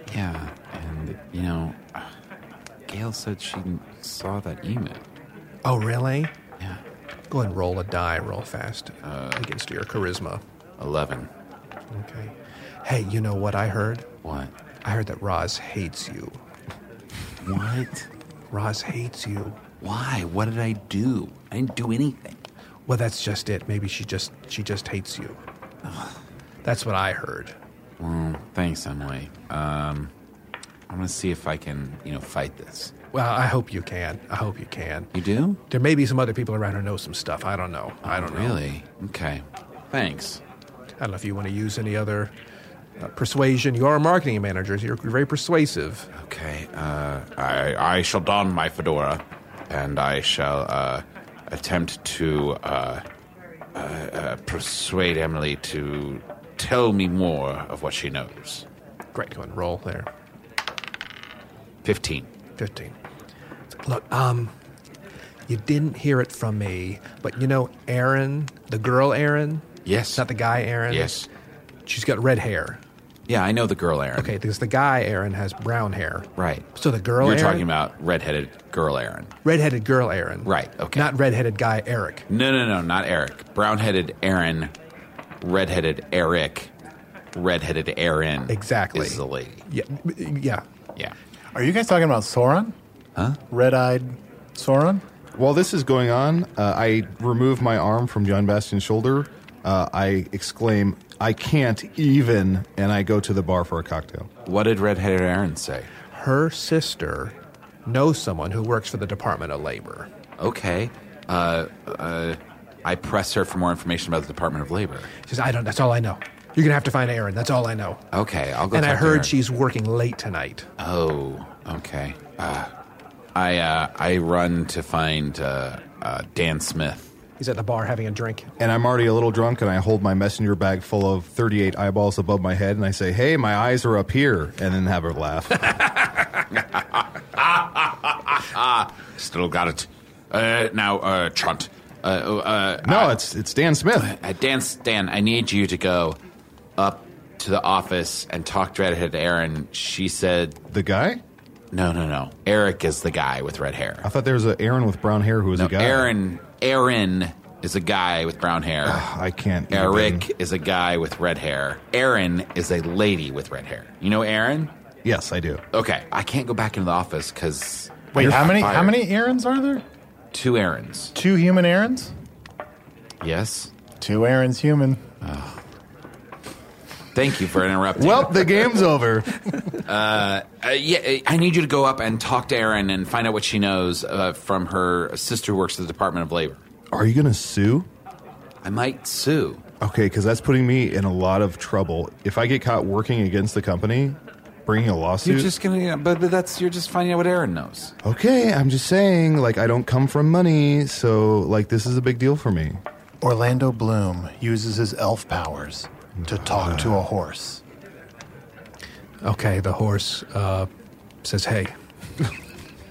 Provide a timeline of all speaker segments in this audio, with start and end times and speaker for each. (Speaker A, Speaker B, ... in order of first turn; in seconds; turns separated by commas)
Speaker A: 0.1-2.1, Speaker A: 2.9-5.0, Speaker B: 5.7-6.3, Speaker B: 7.3-10.4, Speaker A: 9.0-9.5, Speaker A: 10.8-11.3, Speaker B: 11.9-14.1, Speaker A: 14.2-14.5, Speaker B: 14.8-16.4, Speaker A: 17.4-18.1, Speaker B: 18.5-19.6, Speaker A: 19.8-22.4, Speaker B: 22.9-25.4, Speaker A: 25.9-26.1, Speaker B: 26.6-27.6, Speaker A: 28.0-30.1, Speaker A: 30.9-32.9, Speaker B: 33.1-35.1, Speaker A: 35.1-35.6, Speaker B: 35.7-38.6, Speaker A: 38.0-40.4, Speaker B: 41.0-42.3, Speaker B: 43.0-46.1, Speaker A: 46.1-53.0, Speaker A: 53.8-58.6, Speaker B: 59.1-60.1, Speaker A: 61.8-62.3, Speaker B: 62.6-62.9, Speaker B: 63.7-64.5, Speaker B: 65.5-71.1, Speaker A: 69.8-70.3, Speaker A: 70.9-71.3, Speaker B: 71.9-72.8, Speaker A: 73.3-74.3, Speaker B: 74.2-77.7, Speaker A: 76.4-76.7, Speaker A: 77.2-79.3, Speaker B: 79.5-82.2, Speaker A: 80.5-81.1, Speaker A: 82.3-84.7, Speaker A: 85.4-86.7, Speaker A: 87.3-89.6, Speaker B: 88.5-90.6, Speaker C: 91.5-92.8, Speaker C: 93.5-95.0, Speaker D: 95.4-104.3, Speaker A: 104.5-105.9, Speaker B: 106.1-110.1, Speaker A: 110.4-115.1, Speaker B: 115.3-118.0, Speaker A: 118.1-119.3, Speaker B: 118.7-120.7, Speaker A: 120.8-122.7, Speaker A: 123.3-127.1, Speaker B: 127.4-128.5, Speaker D: 128.6-135.9, Speaker A: 136.5-143.2, Speaker D: 142.8-144.1, Speaker A: 144.0-146.2, Speaker A: 146.8-150.6, Speaker D: 150.7-151.2, Speaker A: 151.7-154.1, Speaker D: 154.0-156.1, Speaker A: 155.6-159.0, Speaker D: 158.8-160.3, Speaker A: 159.7-164.7, Speaker D: 165.0-165.6, Speaker A: 165.7-169.0, Speaker C: 168.1-169.8, Speaker D: 168.2-168.6, Speaker A: 170.3-171.1, Speaker C: 171.1-172.1, Speaker A: 173.2-173.7, Speaker C: 174.0-175.0, Speaker A: 175.2-175.6, Speaker A: 177.1-178.7, Speaker D: 178.0-179.5, Speaker A: 179.8-186.6, Speaker D: 186.9-187.9, Speaker A: 188.6-189.6, Speaker D: 189.8-195.5, Speaker A: 195.2-197.9, Speaker D: 198.0-202.8, Speaker C: 203.2-207.6, Speaker D: 206.3-207.0, Speaker B: 209.2-210.7, Speaker B: 211.2-211.7